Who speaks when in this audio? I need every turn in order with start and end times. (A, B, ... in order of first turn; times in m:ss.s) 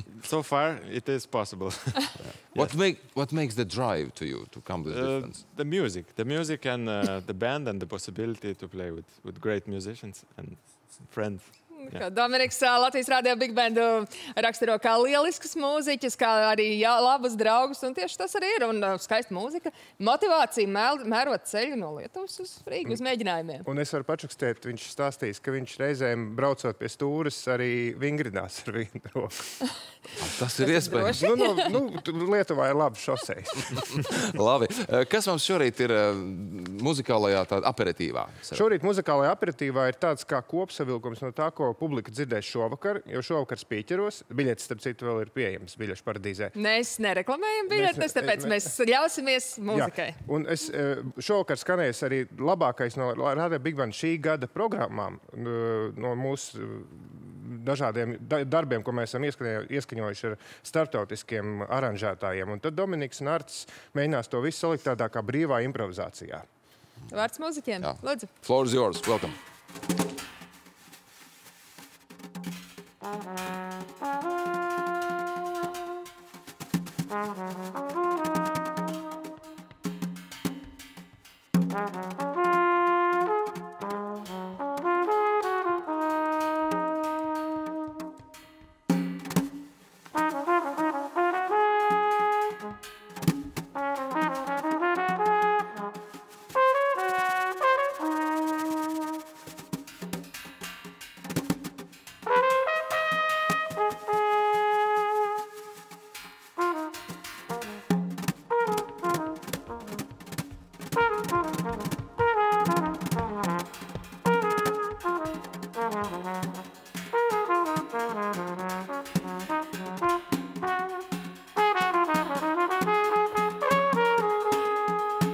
0:00.2-0:03.0 A
0:02.3-0:05.4 B
0:04.9-0:12.0 A
0:11.7-0:23.7 C
0:23.6-0:29.6 D
0:30.2-0:31.2 B
0:30.6-0:31.7 C
0:31.1-0:34.1 D
0:34.2-0:38.7 B
0:38.5-0:46.6 D
0:46.6-0:50.2 C
0:47.7-0:48.6 D
0:49.7-1:06.4 D
1:07.1-1:08.3 C
1:07.8-1:09.4 B